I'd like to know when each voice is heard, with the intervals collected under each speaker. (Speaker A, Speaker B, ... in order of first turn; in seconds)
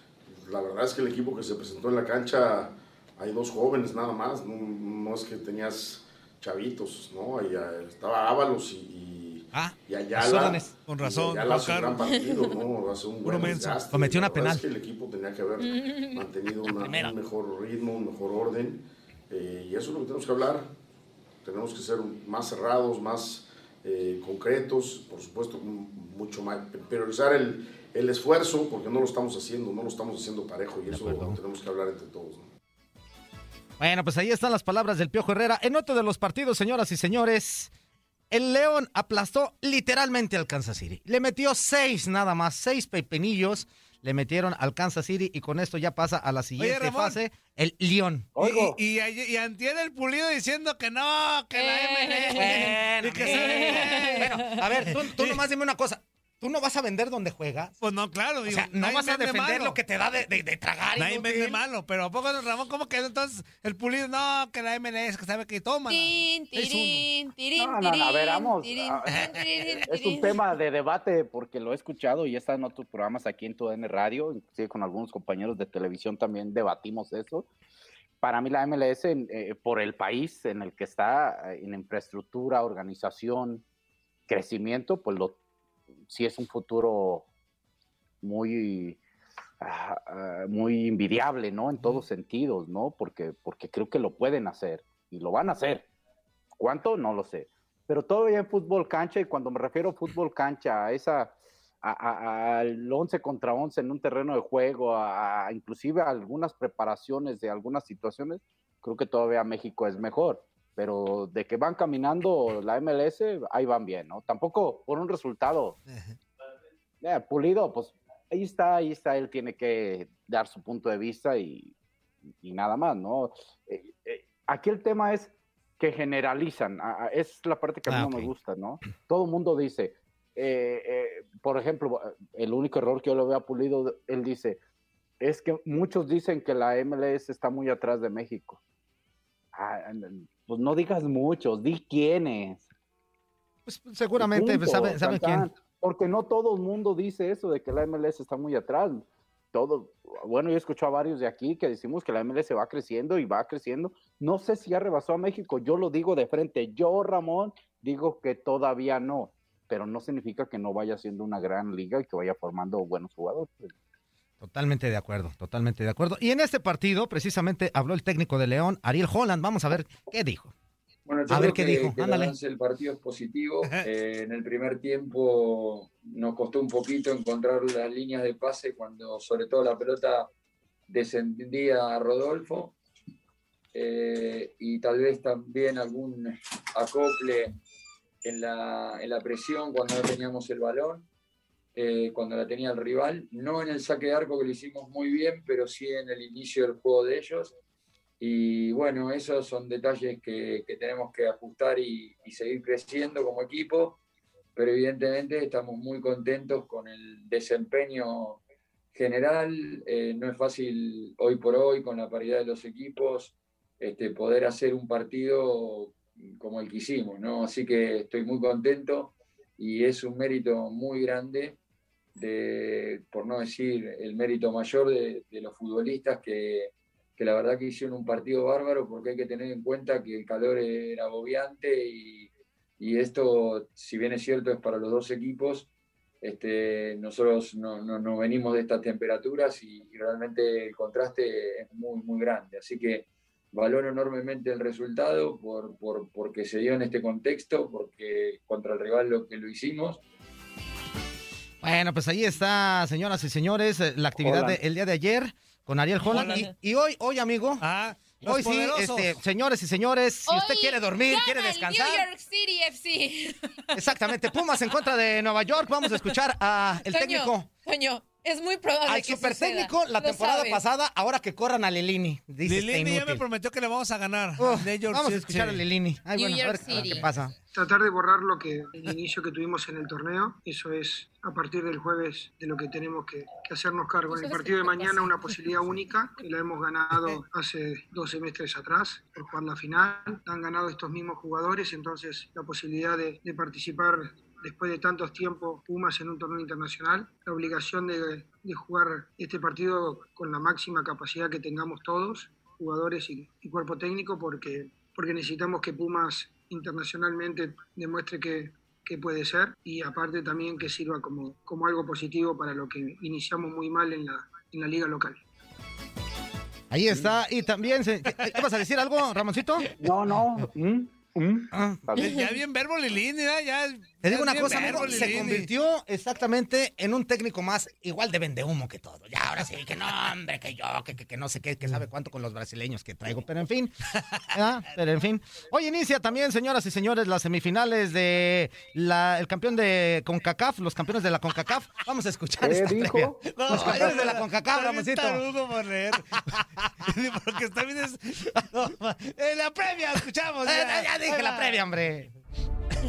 Speaker A: 0.3-20.7, 21.4-32.5
Speaker B: 9.5-10.7, 13.9-14.6, 16.6-17.1, 30.9-31.4, 33.8-37.7, 38.3-48.3, 52.4-57.8, 58.5-61.6, 127.9-128.3, 143.7-145.5, 164.4-170.5, 171.3-172.3, 251.6-257.6, 258.2-262.1, 263.7-267.5, 268.9-273.2, 274.4-277.4, 316.7-319.7, 321.5-321.9, 324.0-333.8, 334.3-345.2, 350.5-352.1
Speaker C: 10.9-12.0, 13.2-13.8, 46.6-47.2, 48.4-54.3, 57.8-59.8, 61.0-67.1, 115.9-116.2, 256.1-256.4, 257.6-259.2, 272.4-275.6, 276.8-277.1, 322.0-325.5, 343.2-346.3, 346.9-351.6
Speaker D: 12.1-12.5, 15.7-16.2, 51.5-54.6, 65.9-70.4, 260.3-263.8, 266.8-270.6, 276.2-277.1, 284.1-285.2
Speaker E: 48.4-48.8, 67.6-69.3, 69.9-77.5, 78.2-83.6, 84.3-85.4, 86.1-87.3, 88.2-89.0, 89.6-95.9, 96.6-115.8, 117.0-121.7, 122.4-134.6, 135.2-138.6, 139.6-142.7, 144.2-163.7, 254.2-254.6, 319.8-322.2, 342.4-344.0
Speaker F: 171.1-180.3, 180.9-182.8, 183.7-187.6, 188.2-191.1, 191.8-197.5, 198.2-204.0, 204.6-208.4, 208.9-221.6, 222.2-235.7, 236.2-250.0
Speaker G: 277.6-315.2